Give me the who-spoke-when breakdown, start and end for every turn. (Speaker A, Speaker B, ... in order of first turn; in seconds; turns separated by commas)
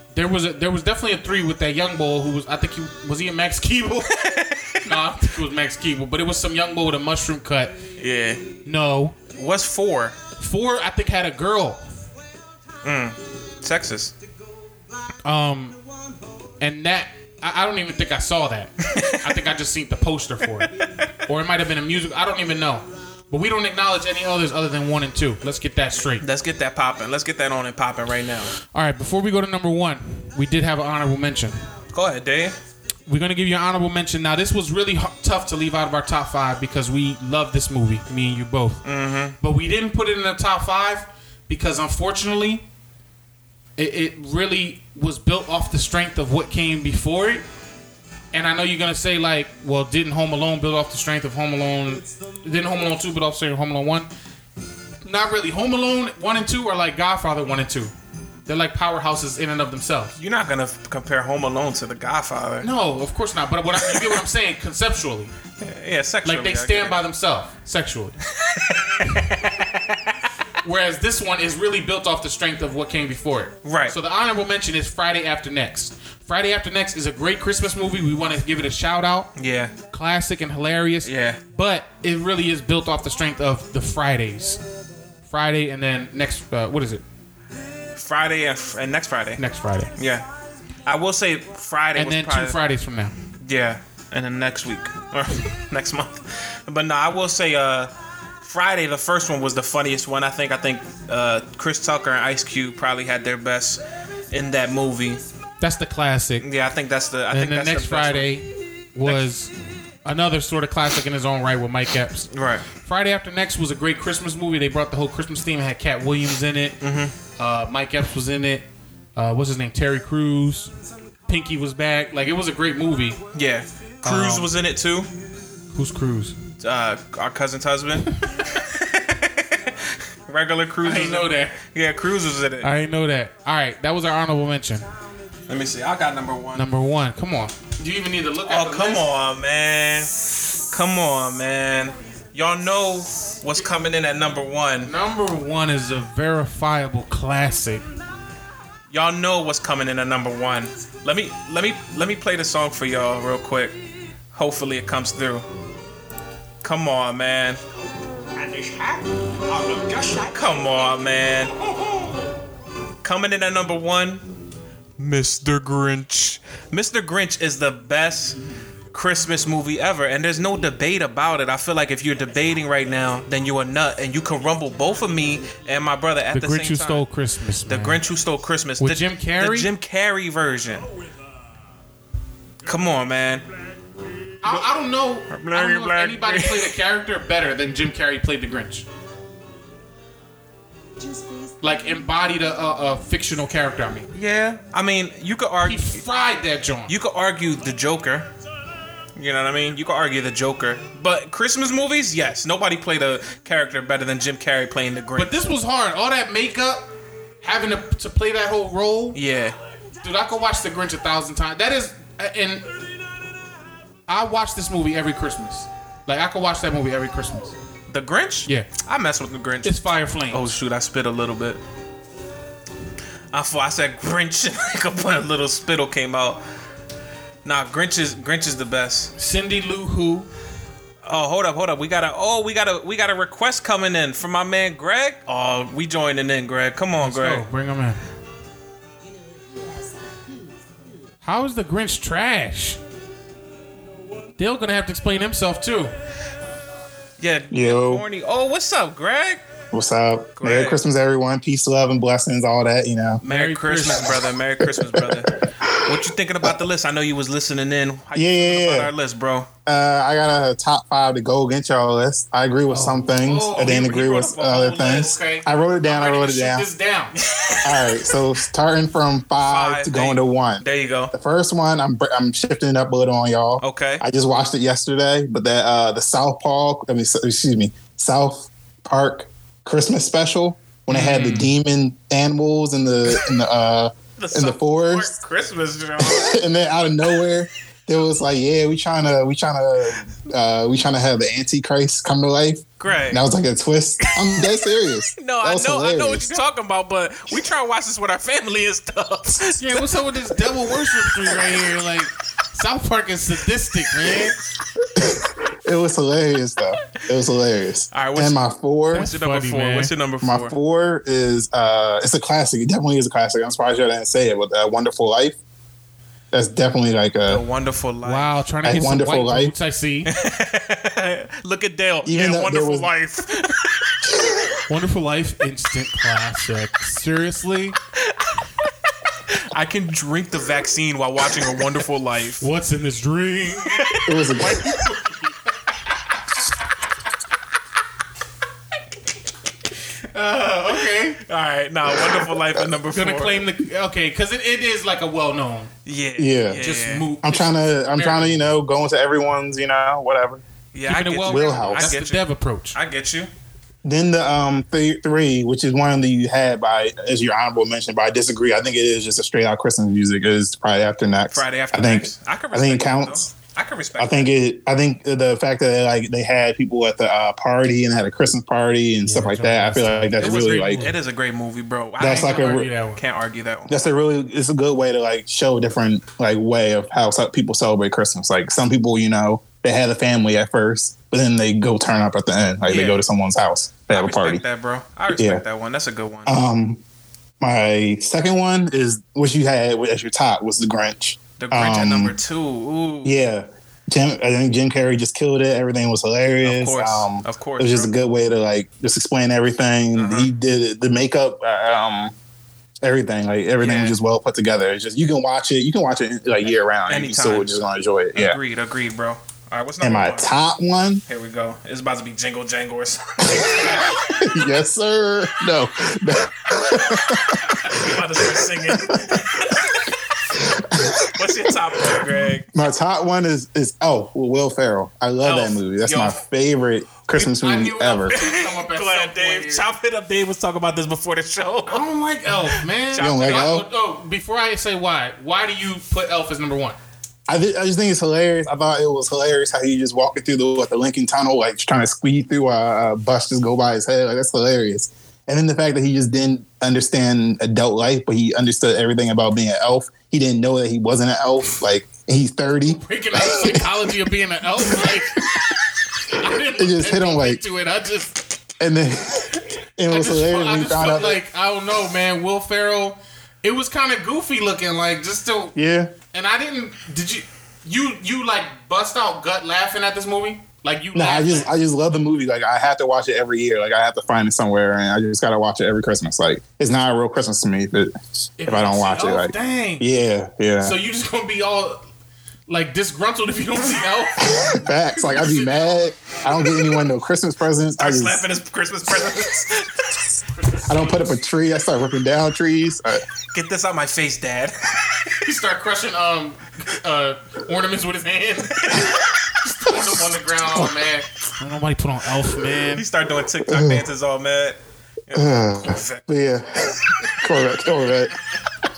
Speaker A: 0.1-4.2, Speaker B: 4.1-5.0, Speaker A: 4.8-7.8, Speaker B: 8.0-8.4, Speaker A: 8.6-9.2, Speaker B: 9.3-10.2, Speaker A: 10.4-11.8, Speaker B: 12.8-14.1, Speaker A: 15.2-15.8, Speaker A: 16.6-20.7, Speaker B: 18.9-19.4, Speaker B: 20.6-21.1, Speaker A: 21.2-26.2, Speaker B: 26.2-28.5, Speaker A: 28.7-31.6, Speaker B: 31.9-32.6, Speaker A: 33.1-38.8, Speaker B: 38.8-39.4, Speaker A: 39.4-42.6, Speaker A: 43.8-47.4, Speaker A: 48.3-54.1, Speaker A: 55.0-57.9, Speaker A: 58.5-60.1, Speaker B: 60.2-62.7, Speaker A: 62.6-65.3, Speaker B: 63.8-64.2, Speaker B: 65.6-67.0, Speaker A: 66.2-68.1, Speaker B: 68.3-70.1, Speaker A: 69.1-69.3, Speaker A: 70.6-79.3, Speaker B: 73.6-74.0, Speaker B: 79.3-79.7, Speaker A: 79.9-84.6, Speaker B: 81.0-81.4, Speaker A: 85.2-87.0, Speaker B: 87.9-89.4, Speaker A: 89.4-89.9, Speaker B: 90.0-90.2, Speaker B: 90.8-92.6, Speaker A: 92.0-93.1, Speaker B: 93.4-105.2, Speaker A: 105.6-106.5, Speaker B: 106.4-108.3, Speaker A: 107.3-109.5, Speaker A: 110.0-116.8, Speaker B: 112.3-112.7, Speaker B: 116.8-117.1, Speaker A: 117.3-120.7, Speaker A: 121.3-123.2, Speaker B: 123.3-125.1, Speaker A: 124.0-124.5, Speaker A: 125.7-126.3, Speaker B: 126.6-132.7, Speaker A: 130.8-131.6, Speaker A: 132.6-134.8, Speaker B: 135.5-136.7, Speaker A: 136.5-139.1, Speaker B: 138.4-144.9, Speaker A: 144.8-147.8, Speaker B: 148.9-153.8, Speaker B: 154.3-155.4, Speaker B: 156.6-157.6, Speaker B: 160.1-161.5, Speaker B: 163.0-164.2, Speaker B: 165.0-168.4, Speaker B: 168.9-177.1, Speaker A: 176.3-178.0, Speaker B: 177.7-180.9, Speaker A: 178.8-179.7, Speaker B: 182.6-183.4, Speaker A: 184.4-188.8, Speaker B: 185.3-186.8, Speaker A: 191.6-194.1, Speaker B: 194.1-196.0, Speaker A: 195.6-196.9, Speaker B: 196.9-198.3, Speaker B: 199.2-205.4, Speaker A: 205.1-206.9, Speaker A: 207.4-209.2, Speaker B: 209.1-209.6, Speaker A: 210.0-212.7, Speaker A: 214.1-217.5, Speaker B: 217.9-221.6, Speaker A: 219.6-220.5, Speaker B: 223.3-226.4, Speaker B: 227.4-229.1, Speaker A: 229.2-230.3, Speaker B: 231.0-237.4, Speaker A: 237.0-238.0, Speaker A: 241.2-242.8, Speaker A: 244.4-245.9, Speaker B: 247.2-249.4, Speaker C: 247.5-248.0, Speaker C: 249.7-253.2, Speaker B: 250.4-250.8, Speaker B: 253.2-259.5, Speaker A: 253.2-254.2, Speaker C: 254.6-256.0, Speaker C: 258.1-258.9, Speaker C: 259.6-266.6, Speaker A: 262.7-263.9, Speaker B: 263.5-265.2, Speaker A: 264.8-267.2, Speaker B: 267.1-268.1, Speaker C: 267.6-285.2, Speaker B: 269.4-271.1, Speaker B: 273.6-274.0, Speaker A: 280.9-281.5, Speaker B: 284.2-286.4, Speaker C: 286.0-296.4, Speaker B: 292.8-293.2, Speaker B: 294.1-294.6, Speaker B: 295.1-300.1, Speaker A: 299.4-304.4, Speaker C: 305.0-309.1, Speaker B: 307.9-308.4, Speaker A: 308.9-309.9, Speaker B: 308.9-310.5, Speaker C: 310.2-315.4, Speaker C: 316.3-317.4, Speaker B: 317.3-318.4, Speaker A: 318.0-320.1, Speaker C: 318.6-319.5, Speaker B: 320.1-324.0, Speaker C: 322.0-322.9, Speaker A: 324.7-327.8, Speaker B: 329.3-332.5, Speaker A: 332.4-335.4, Speaker B: 333.6-334.0, Speaker C: 334.1-334.6, Speaker A: 340.1-341.2, Speaker B: 340.7-343.5, Speaker A: 342.9-345.7, Speaker B: 345.9-347.1, Speaker C: 346.2-346.6, Speaker A: 346.6-348.5, Speaker C: 347.2-350.4, Speaker B: 350.7-353.3, Speaker A: 350.9-352.8, Speaker C: 351.2-351.9, Speaker C: 353.8-363.3, Speaker B: 361.3-364.3, Speaker C: 364.0-370.9, Speaker A: 369.0-371.0, Speaker B: 370.2-373.7, Speaker C: 372.0-372.7, Speaker A: 372.0-373.0, Speaker C: 373.7-384.4, Speaker B: 382.6-383.0, Speaker B: 383.9-386.4, Speaker C: 385.1-385.4, Speaker C: 386.2-386.8, Speaker C: 387.4-392.1, Speaker B: 391.4-393.2, Speaker C: 393.0-402.1, Speaker B: 396.4-397.9, Speaker B: 399.9-400.3, Speaker C: 402.8-408.4, Speaker B: 403.6-404.0, Speaker B: 406.9-407.6, Speaker B: 408.1-410.3, Speaker C: 409.8-411.0, Speaker B: 411.1-414.1, Speaker C: 413.4-419.4, Speaker B: 416.7-419.9, Speaker C: 420.4-428.1, Speaker B: 421.1-422.5, Speaker B: 425.2-426.2, Speaker A: 427.1-429.7, Speaker B: 428.1-431.8, Speaker A: 431.7-436.8, Speaker B: 432.4-433.6, Speaker C: 432.9-433.7, Speaker C: 437.3-453.8, Speaker A: 452.6-455.2, Speaker C: 454.6-455.0, Speaker A: 456.1-458.2, Speaker C: 456.5-457.4, Speaker C: 458.6-461.2, Speaker A: 459.9-465.5, Speaker C: 465.5-465.9, Speaker A: 466.1-471.5, Speaker C: 470.9-480.8, Speaker A: 478.4-479.8, Speaker A: 480.6-481.8, Speaker A: 482.5-486.6, Speaker C: 484.2-488.2, Speaker B: 487.8-490.0, Speaker A: 490.3-491.2, Speaker C: 490.7-493.0, Speaker B: 493.3-495.1, Speaker A: 495.2-498.8, Speaker B: 498.6-499.1, Speaker A: 499.5-502.8, Speaker B: 502.7-506.1, Speaker C: 503.4-503.8, Speaker C: 505.1-508.1